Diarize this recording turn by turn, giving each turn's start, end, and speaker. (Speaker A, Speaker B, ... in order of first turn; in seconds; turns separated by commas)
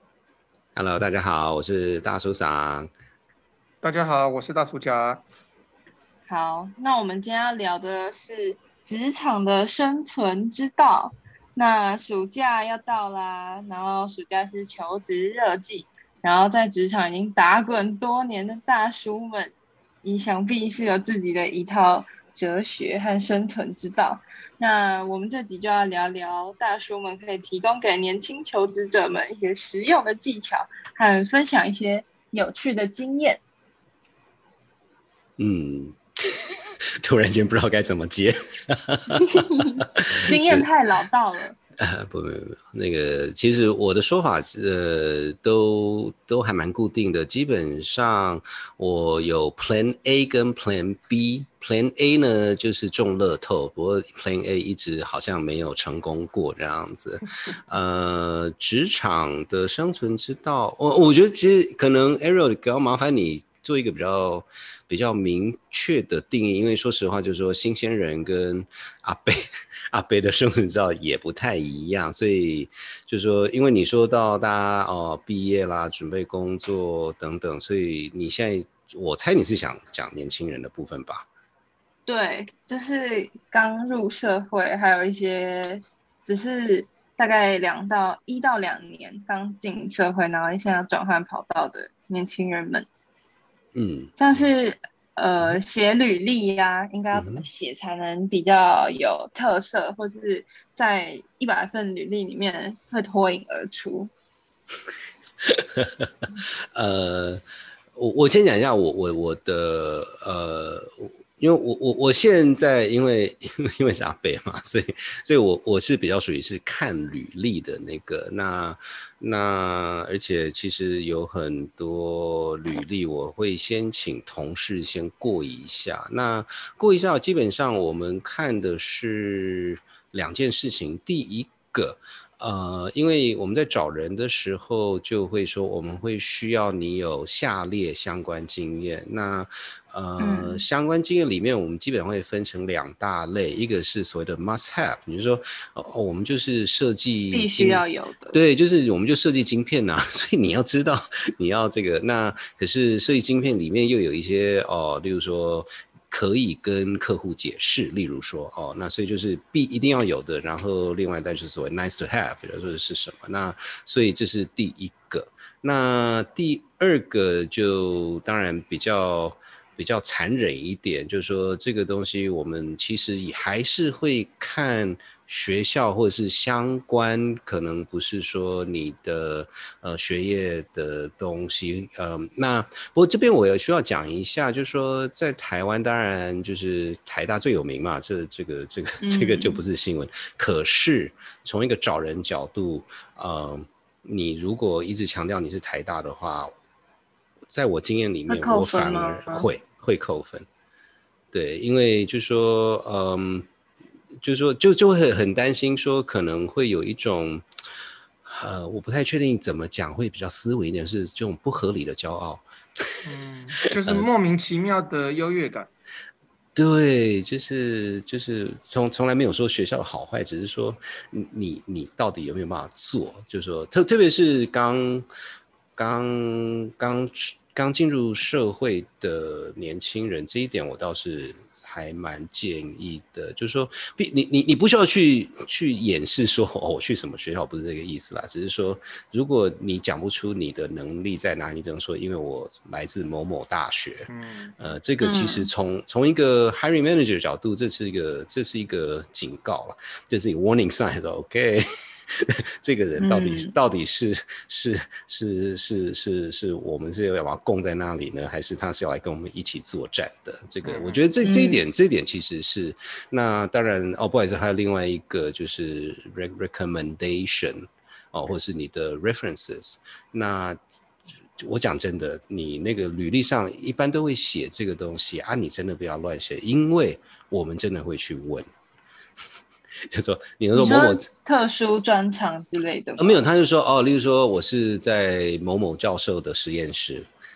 Speaker A: 0.7-2.9, Speaker B: 3.8-5.2, Speaker C: 6.3-33.4, Speaker A: 35.4-36.5, Speaker A: 37.0-40.7, Speaker C: 39.1-41.6, Speaker A: 41.8-81.2, Speaker C: 82.1-92.9, Speaker A: 93.7-94.5, Speaker C: 94.2-104.1, Speaker A: 97.1-97.4, Speaker A: 105.4-106.1, Speaker A: 106.7-107.4, Speaker A: 107.9-147.8, Speaker C: 140.2-140.6, Speaker C: 147.3-148.4, Speaker A: 148.3-196.5, Speaker C: 189.0-189.6, Speaker A: 197.5-200.4, Speaker C: 198.3-199.5, Speaker A: 201.3-203.5, Speaker A: 204.2-207.4, Speaker A: 208.2-213.0, Speaker B: 213.0-215.7, Speaker A: 216.6-225.1, Speaker A: 225.8-270.6, Speaker B: 244.1-244.5, Speaker C: 245.0-245.5, Speaker C: 253.0-253.5, Speaker B: 260.6-261.1, Speaker C: 261.2-261.6, Speaker A: 271.4-278.4, Speaker A: 279.9-281.1, Speaker C: 280.5-283.2, Speaker A: 283.0-287.1